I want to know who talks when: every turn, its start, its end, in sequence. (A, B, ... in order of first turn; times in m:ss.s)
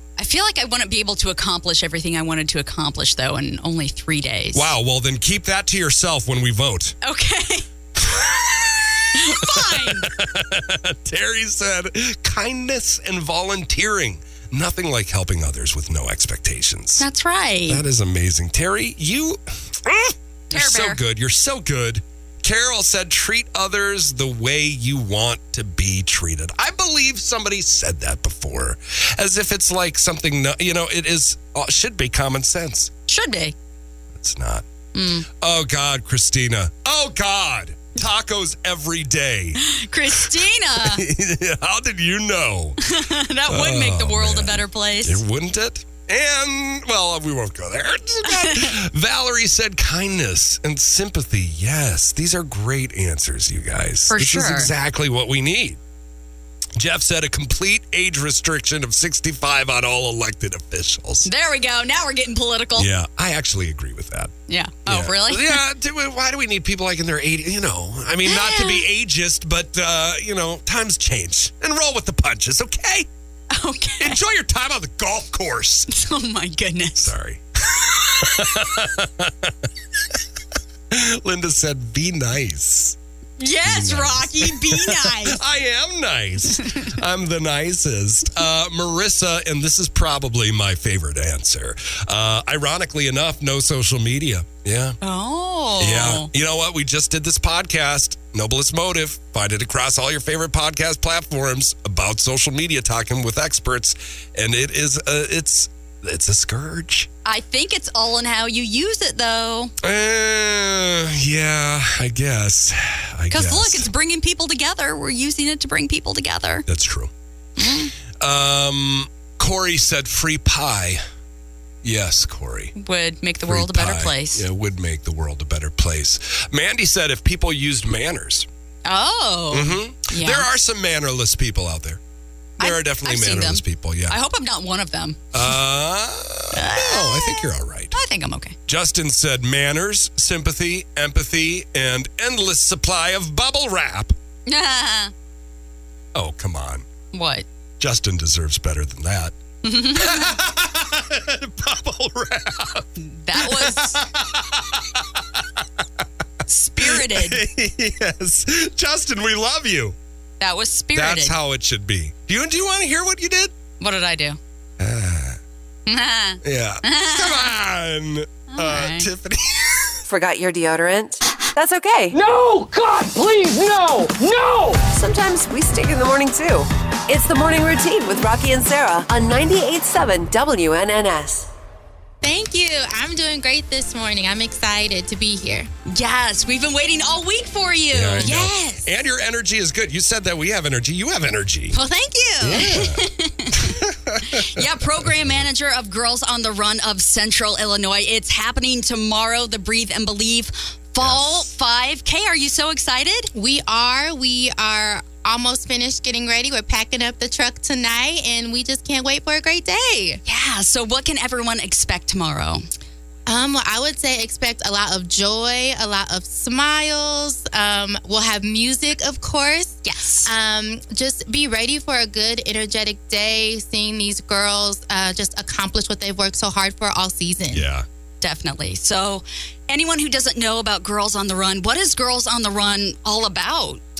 0:00.2-0:04.7 A
0:04.5-0:07.0 B
0:07.0-0:07.6 A
0:08.0-0:17.0 B
0:09.2-0:10.1 A
0:17.0-0:17.8 A
0:17.7-0:32.9 B
0:20.5-0:21.0 A
0:33.1-0:33.5 A
0:34.2-0:34.6 B
0:34.9-0:35.3 A
0:35.4-0:39.6 B
0:39.6-0:41.0 A
0:40.8-0:42.8 B
0:42.8-0:45.2 A
0:43.5-0:55.8 B
0:48.3-0:48.7 A
0:54.1-0:54.7 A
0:56.8-1:01.3 B
1:01.2-1:02.9 A
1:02.8-1:04.3 B
1:04.5-1:05.6 A
1:04.9-1:13.1 B
1:08.2-1:08.8 A
1:13.5-1:14.2 A
1:14.0-1:15.9 B
1:15.9-1:17.1 A
1:17.0-1:19.5 B
1:20.9-1:23.0 B
1:23.4-1:25.4 A
1:23.6-1:35.0 B
1:35.0-1:36.3 A
1:35.8-1:47.1 B
1:47.2-1:49.7 A
1:49.8-1:53.9 B
1:53.3-1:56.6 A
1:56.7-1:57.1 B
1:57.6-1:57.9 A
1:58.2-2:01.0 B
2:01.8-2:02.7 B
2:02.8-2:04.4 A
2:03.4-2:08.5 B
2:08.8-2:10.4 A
2:09.5-2:12.0 B
2:12.6-2:14.2 B
2:12.6-2:15.5 A
2:15.3-2:18.0 B
2:16.5-2:18.5 A
2:18.7-2:24.1 B
2:24.4-2:25.1 A
2:26.1-2:26.8 B
2:27.1-2:27.4 A
2:27.8-2:29.4 B
2:29.6-2:30.3 A
2:29.9-2:35.6 B
2:33.0-2:34.0 A
2:36.5-2:37.4 A
2:36.8-2:40.0 B
2:40.4-2:41.4 A
2:40.9-2:43.5 B
2:43.8-2:44.4 A
2:44.8-2:45.4 B
2:45.9-2:47.5 A
2:46.4-2:49.9 B
2:48.5-2:49.1 A
2:50.1-2:52.2 C
2:52.1-2:54.9 D
2:54.9-3:01.5 C
3:02.2-3:05.7 E
3:05.9-3:08.3 A
3:07.9-3:11.8 B
3:08.2-3:08.9 E
3:11.7-3:13.8 A
3:12.4-3:15.4 B
3:14.3-3:23.3 A
3:21.0-3:21.5 B
3:23.3-3:30.2 E
3:30.2-3:32.6 A
3:33.3-3:47.6 E
3:39.8-3:40.3 A
3:47.5-3:47.8 B
3:48.2-3:53.8 A